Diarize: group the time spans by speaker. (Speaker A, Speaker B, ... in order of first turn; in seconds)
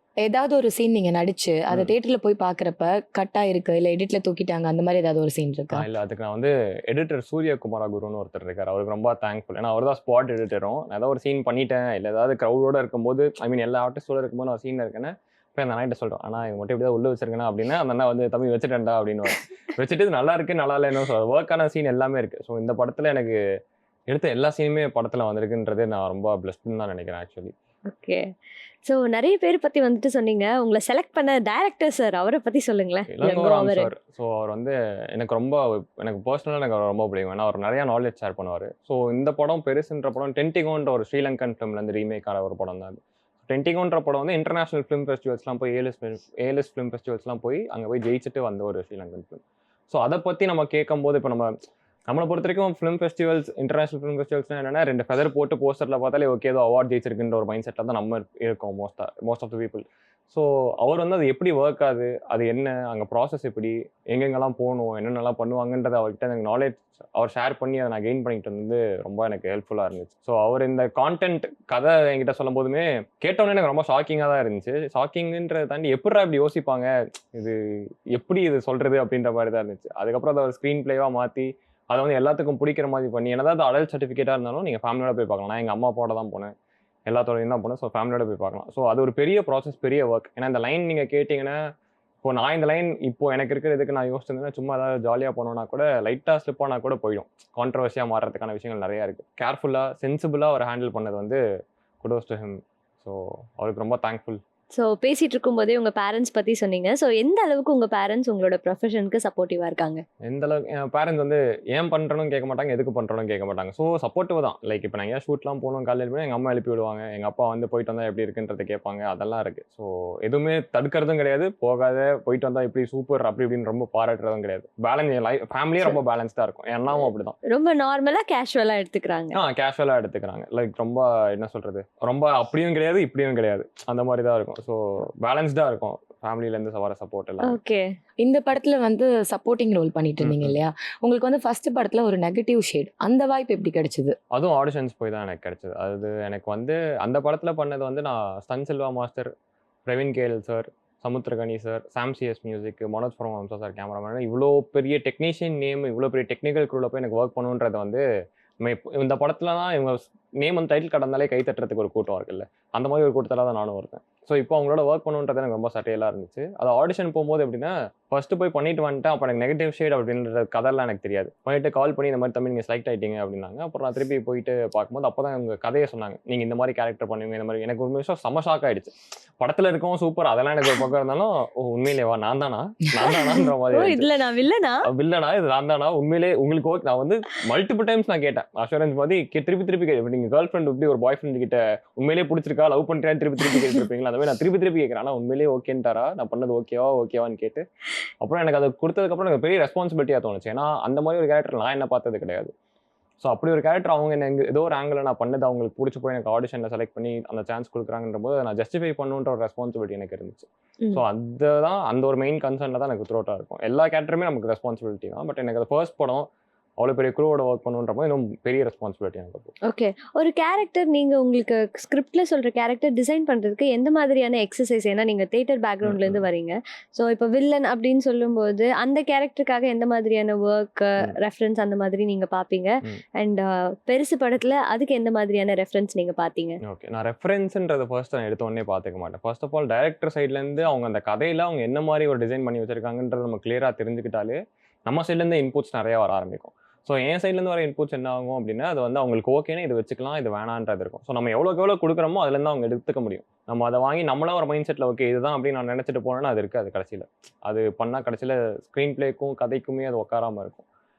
Speaker A: 0.2-5.8, 138.2-144.1
Speaker B: 5.7-23.4, 24.1-27.5, 33.1-51.5, 52.1-86.5, 87.1-91.6, 92.2-101.4, 102.0-104.4, 110.2-127.3, 129.3-137.6, 140.2-140.6, 144.3-149.3, 149.9-158.0, 158.6-184.1, 184.8-197.6, 198.2-202.5, 203.2-216.3, 216.8-219.5, 225.8-226.2, 236.6-260.6
Speaker C: 27.9-28.3, 28.8-33.9, 104.7-110.0, 127.4-129.4, 137.4-137.8, 183.1-184.8, 219.7-236.6